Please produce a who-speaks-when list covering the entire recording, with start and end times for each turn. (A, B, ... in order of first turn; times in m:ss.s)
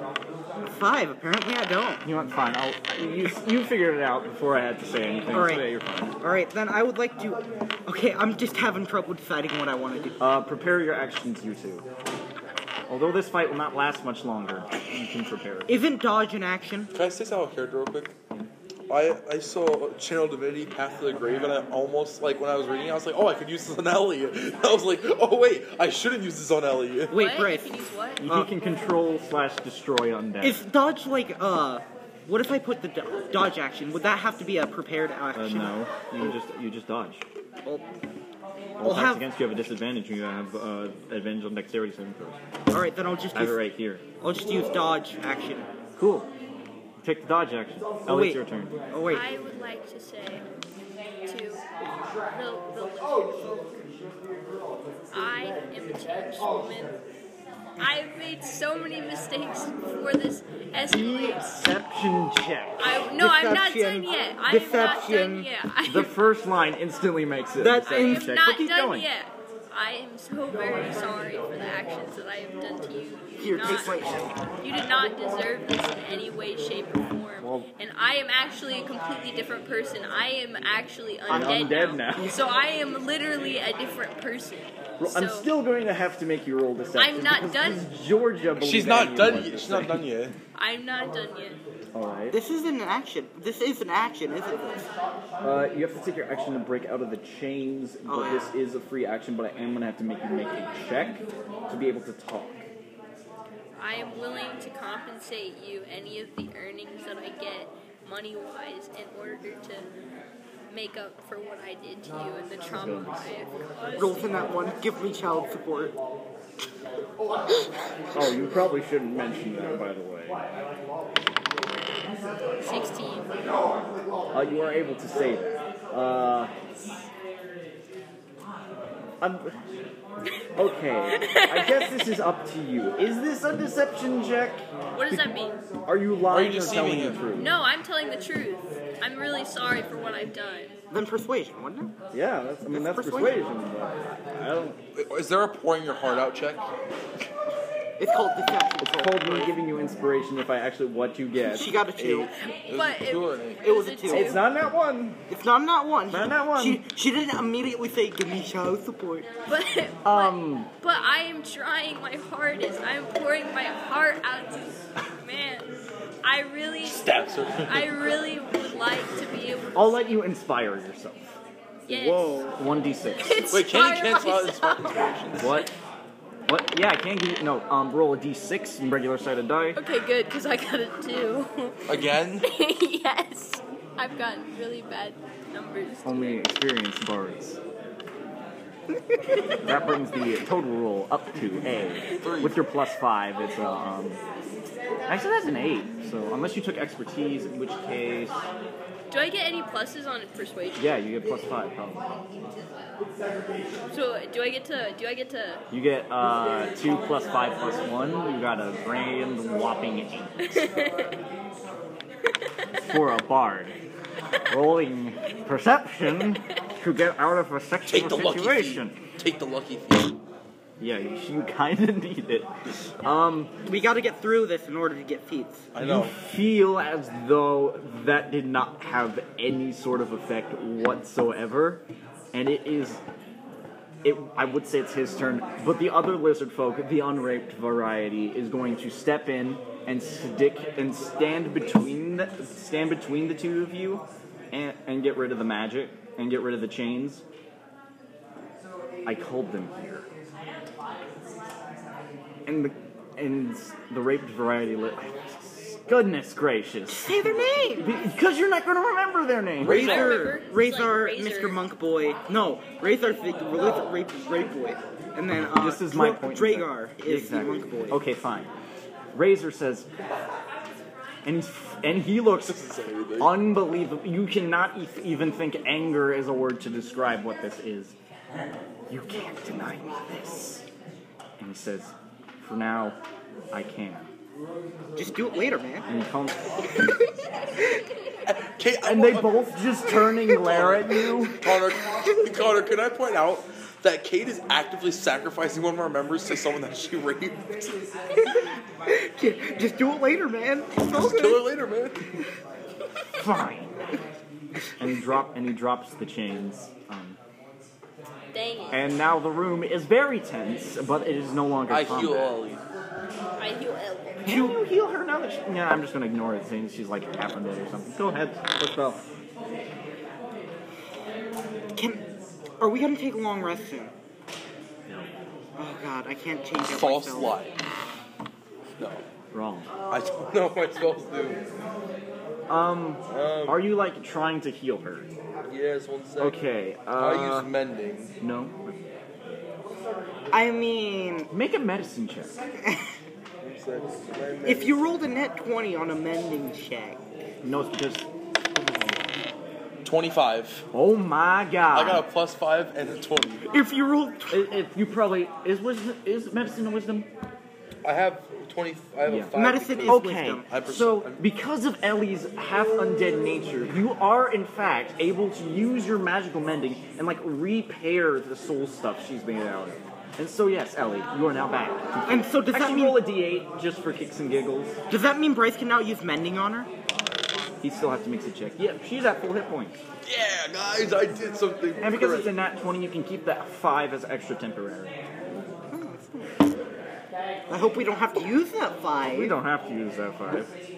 0:00.7-0:02.0 A
0:02.0-0:06.2 B
0:05.3-0:10.2 A
0:10.2-0:11.8 B
0:12.9-0:15.7 B
0:15.7-0:16.9 A
0:16.9-0:18.1 C
0:18.9-0:27.1 C
0:27.1-0:27.7 A
0:27.1-0:28.2 D
0:28.2-0:30.6 B
0:28.2-0:28.5 A
0:30.4-0:35.8 A
0:35.3-0:37.2 B
0:38.8-0:42.4 B
0:38.8-0:39.2 A
0:42.7-0:43.7 A
0:43.3-0:44.0 B
0:44.2-0:45.7 A
0:46.0-0:46.3 B
0:47.0-0:48.8 B
0:48.1-0:49.2 A
0:49.1-0:50.4 D
0:51.3-0:51.6 D
0:52.3-0:53.6 D
0:55.1-0:57.0 D
0:57.8-1:01.5 D
1:00.8-1:02.9 B
1:02.8-1:06.2 D
1:03.2-1:05.5 A
1:05.8-1:09.1 B
1:07.6-1:08.4 A
1:07.8-1:25.5 D
1:13.4-1:14.3 A
1:17.4-1:17.7 B
1:21.3-1:22.2 A
1:21.3-1:22.4 B
1:25.0-1:30.1 B
1:27.0-1:27.9 D
1:28.6-1:30.4 C
1:30.6-1:31.6 D
1:31.9-1:32.4 B
1:32.3-1:34.9 A
1:35.4-1:42.6 B
1:38.1-1:38.5 A
1:43.8-1:49.9 D
1:50.7-1:54.5 D
1:52.7-1:53.3 B
1:54.0-1:56.0 A
1:58.1-2:00.4 B
2:02.6-2:03.3 D
2:04.3-2:06.5 B
2:09.2-2:09.6 B
2:10.6-2:17.5 B
2:11.1-2:12.0 D
2:15.0-2:15.6 D
2:16.3-2:17.2 C
2:17.3-2:20.7 D
2:20.9-2:21.9 A
2:22.1-2:24.8 B
2:22.7-2:23.4 A
2:25.0-2:26.6 C
2:28.0-2:29.5 A
2:28.8-2:32.3 B
2:31.4-2:32.3 A
2:32.4-2:34.4 D
2:32.7-2:33.6 C
2:33.6-2:34.3 A
2:34.1-2:35.2 B
2:35.3-2:39.3 A
2:36.1-2:36.8 B
2:39.5-2:45.7 D
2:40.0-2:40.7 B
2:46.2-2:50.0 D
2:46.8-2:47.9 C
2:49.8-2:51.3 B
2:51.9-2:52.5 D
2:51.9-2:53.5 B
2:53.2-2:55.1 D
2:53.5-2:55.7 C
2:55.4-2:55.7 B
2:56.5-2:59.8 B
2:59.8-3:01.8 D
3:01.9-3:02.5 C
3:02.4-3:06.5 D
3:06.0-3:07.6 B
3:09.6-3:14.2 B
3:12.2-3:12.6 C
3:15.1-3:18.4 B
3:19.1-3:21.0 D
3:20.8-3:22.2 B
3:23.9-3:25.6 D
3:25.7-3:30.7 B
3:30.4-3:31.2 D
3:32.8-3:33.8 B
3:34.5-3:39.0 B
3:37.9-3:40.2 C
3:40.8-3:43.5 B
3:43.7-3:45.7 A
3:45.7-3:46.2 C
3:45.8-3:53.0 B
3:54.0-4:07.2 B
4:09.0-4:10.1 B
4:12.5-4:20.0 B
4:16.9-4:18.0 A
4:19.6-4:20.3 C
4:19.6-4:28.0 A
4:19.7-4:21.6 D
4:25.5-4:28.5 B
4:29.1-4:29.9 B
4:31.2-4:32.6 B
4:32.4-4:33.4 C
4:33.2-4:38.0 B
4:38.9-4:40.6 B
4:41.4-4:43.0 B
4:43.5-4:44.1 B
4:45.0-4:45.9 A
4:45.9-4:46.7 B
4:48.3-4:49.6 C
4:48.8-4:51.4 B
4:50.4-4:57.8 C
4:58.9-5:01.5 A
5:00.9-5:02.1 C
5:03.1-5:03.8 B
5:04.8-5:07.2 B
5:08.3-5:08.9 D
5:08.7-5:12.4 B
5:11.7-5:12.6 C
5:13.4-5:14.3 D
5:14.3-5:14.6 A
5:14.3-5:19.0 B
5:21.8-5:22.0 A
5:22.6-5:23.9 A
5:25.6-5:27.4 A
5:26.6-5:27.6 C
5:28.8-5:29.0 C
5:29.3-5:29.7 B
5:29.9-5:31.4 C
5:32.5-5:35.1 B
5:33.1-5:33.6 C
5:35.5-5:36.4 C
5:36.2-5:37.5 B
5:37.0-5:38.1 C
5:38.2-5:38.8 B
5:40.3-5:41.3 A
5:41.3-5:42.4 B
5:42.7-5:42.9 A
5:43.4-5:44.8 C
5:44.4-5:47.0 A
5:47.4-5:48.1 B
5:48.7-5:49.0 B
5:49.8-5:50.6 C
5:50.7-5:52.1 B
5:51.7-5:53.5 C
5:53.5-5:54.5 A
5:54.3-5:57.1 B
5:57.8-6:01.2 C
5:59.0-5:59.3 B
5:59.4-6:00.5 A
5:59.9-6:14.8 B
6:12.1-6:13.0 A
6:14.9-6:16.7 A
6:17.6-6:19.8 B
6:20.0-6:22.3 C
6:21.8-6:25.0 B
6:25.7-6:26.5 A
6:27.5-6:29.4 A
6:29.0-6:30.5 B